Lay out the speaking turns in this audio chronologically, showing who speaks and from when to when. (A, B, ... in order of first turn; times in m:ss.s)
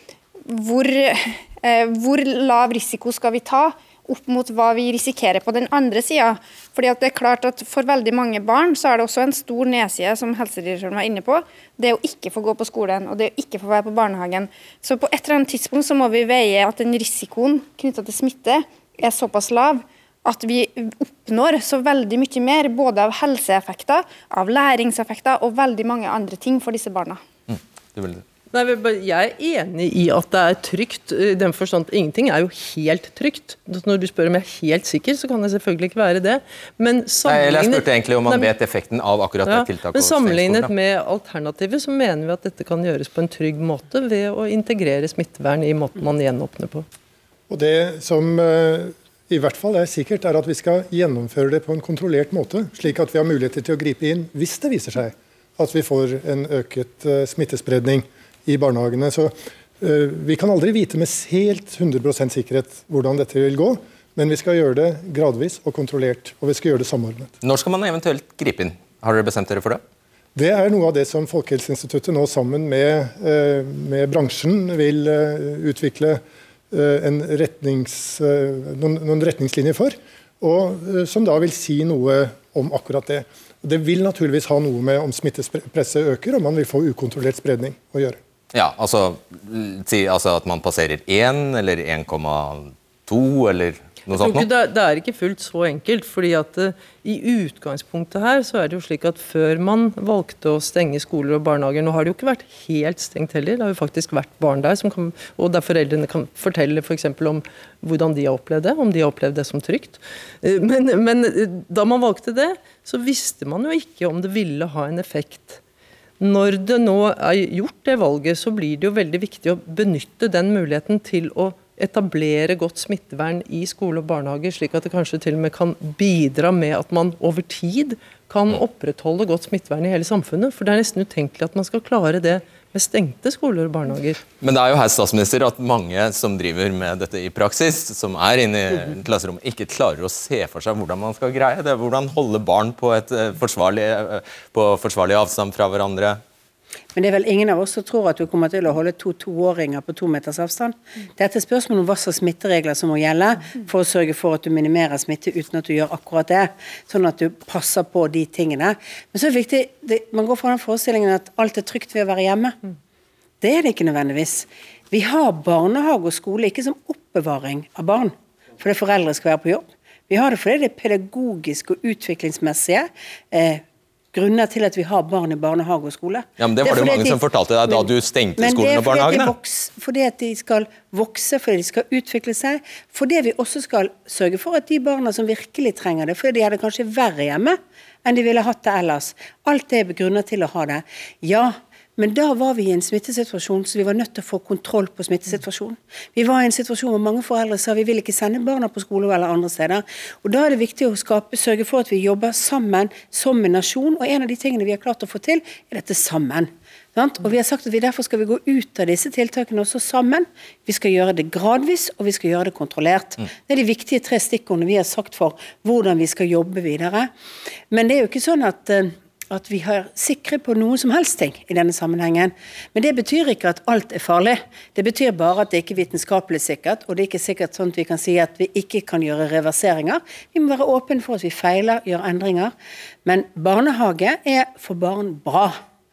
0:00.5-0:27.2 A
0:27.5-0:28.2 B
0:28.5-0:38.5 C
0:37.3-0:40.7 B
0:39.4-0:46.9 C
0:47.5-1:07.3 D
1:07.4-1:09.8 B
1:10.4-1:28.2 D
1:28.5-1:34.5 B
1:34.2-1:55.6 C
1:56.2-2:14.2 C
2:14.4-2:26.2 B
2:27.0-2:42.6 E
2:43.4-2:57.9 E
2:56.4-2:59.3 B
2:58.4-3:37.1 E
3:37.7-3:52.5 E
3:53.0-3:55.6 E